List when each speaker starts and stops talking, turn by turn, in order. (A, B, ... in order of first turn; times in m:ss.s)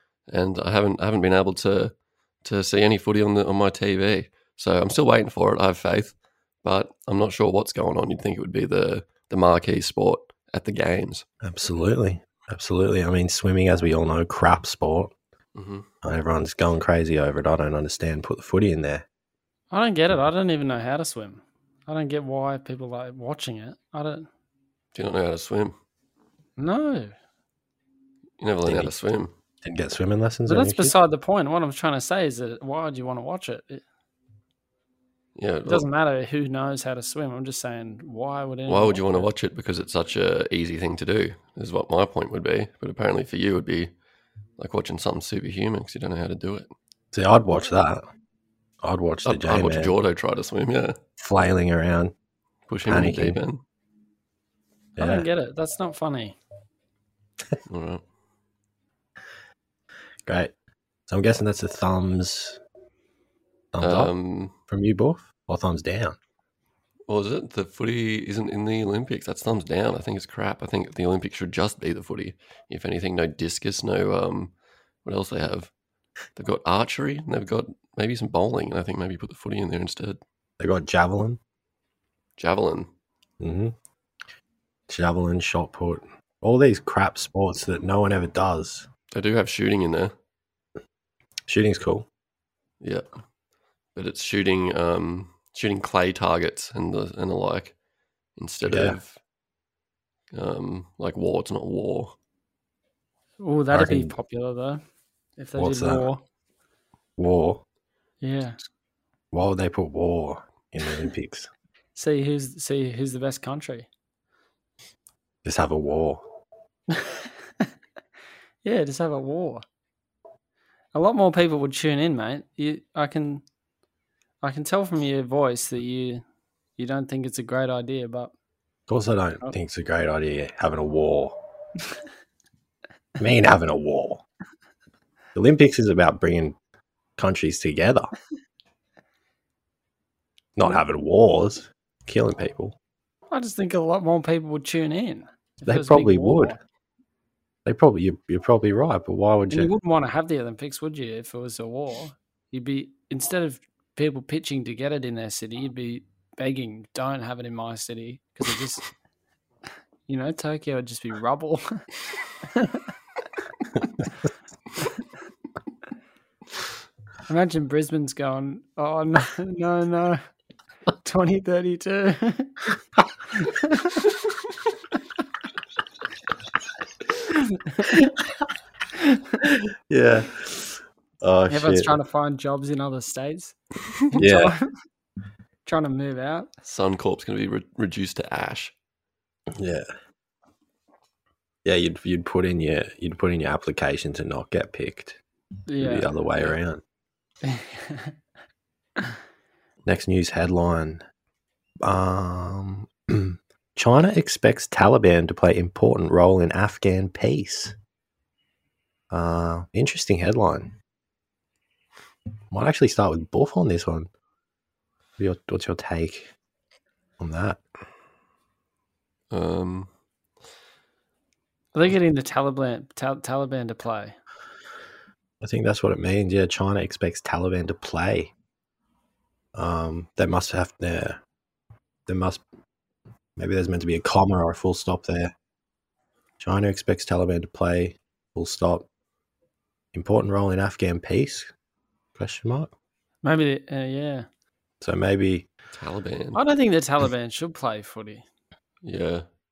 0:00.3-0:11.2 A
0:11.4-0:15.1 B
0:15.6-0:15.9 A
0:16.0-0:19.1 B
0:19.7-0:24.3 C
0:24.9-0:25.8 A
0:26.6-0:27.1 C
0:28.4-0:29.3 A
0:28.7-0:28.9 B
0:29.6-0:31.0 B
0:30.5-0:33.8 C
0:35.4-0:35.9 A
0:35.7-0:39.3 C
0:38.7-0:43.9 A
0:44.6-0:46.7 A
0:47.1-0:48.1 B
0:48.8-0:49.9 B
0:49.2-0:51.0 A
0:51.2-0:52.1 B
0:52.7-0:53.6 A
0:52.9-0:53.4 B
0:55.0-0:55.3 B
0:55.0-0:56.4 C
0:57.7-0:58.0 A
1:00.3-1:00.5 B
1:01.1-1:02.6 B
1:03.7-1:04.1 B
1:03.8-1:04.5 A
1:04.7-1:06.2 B
1:07.1-1:14.5 A
1:15.0-1:15.7 A
1:16.4-1:20.2 A
1:20.6-1:21.4 B
1:22.4-1:22.9 A
1:23.4-1:23.8 B
1:24.9-1:28.9 B
1:29.1-1:30.1 A
1:31.5-1:32.1 B
1:32.8-1:33.1 A
1:34.0-1:37.8 A
1:38.4-1:39.2 A
1:38.6-1:39.0 B
1:40.3-1:42.2 A
1:43.4-1:44.8 C
1:43.7-1:44.1 B
1:45.4-1:46.2 C
1:45.6-1:46.1 B
1:47.2-1:47.6 B
1:48.2-1:48.6 C
1:49.3-1:51.5 B
1:52.0-1:53.9 C
1:55.4-1:56.2 B
1:56.9-1:57.7 C
1:58.6-1:59.6 C
2:00.9-2:03.4 C
2:04.4-2:06.2 C
2:06.8-2:08.3 C
2:08.9-2:11.4 B
2:13.2-2:14.2 B
2:15.4-2:16.6 B
2:17.2-2:18.1 B
2:20.6-2:22.8 B
2:23.3-2:26.6 C
2:25.6-2:26.6 B
2:27.7-2:29.7 B
2:29.5-2:38.8 C
2:40.1-2:41.9 C
2:42.5-2:42.9 C
2:47.3-2:50.2 C
2:51.0-2:52.6 C
2:53.4-2:54.1 C
2:57.3-2:58.1 C
2:59.9-3:02.0 B
3:01.5-3:03.6 C
3:04.1-3:04.7 C
3:04.2-3:04.6 B
3:05.7-3:06.5 C
3:06.6-3:08.7 A
3:09.5-3:09.9 B
3:11.6-3:15.2 B
3:15.7-3:16.1 C
3:15.8-3:16.8 B
3:17.4-3:18.1 C
3:19.8-3:21.0 B
3:21.8-3:27.8 B
3:29.1-3:30.8 B
3:32.5-3:34.1 B
3:35.2-3:36.3 B
3:37.2-3:37.6 B
3:39.3-3:39.9 A
3:41.7-3:44.2 C
3:45.4-3:48.3 B
3:49.6-3:51.2 B
3:52.1-3:52.4 B
3:53.4-3:55.3 B
3:56.4-3:58.9 B
3:59.9-4:01.5 B
4:02.2-4:02.7 B
4:03.2-4:04.3 C
4:04.8-4:05.5 B
4:05.7-4:06.4 A
4:06.4-4:08.2 C
4:08.8-4:09.3 A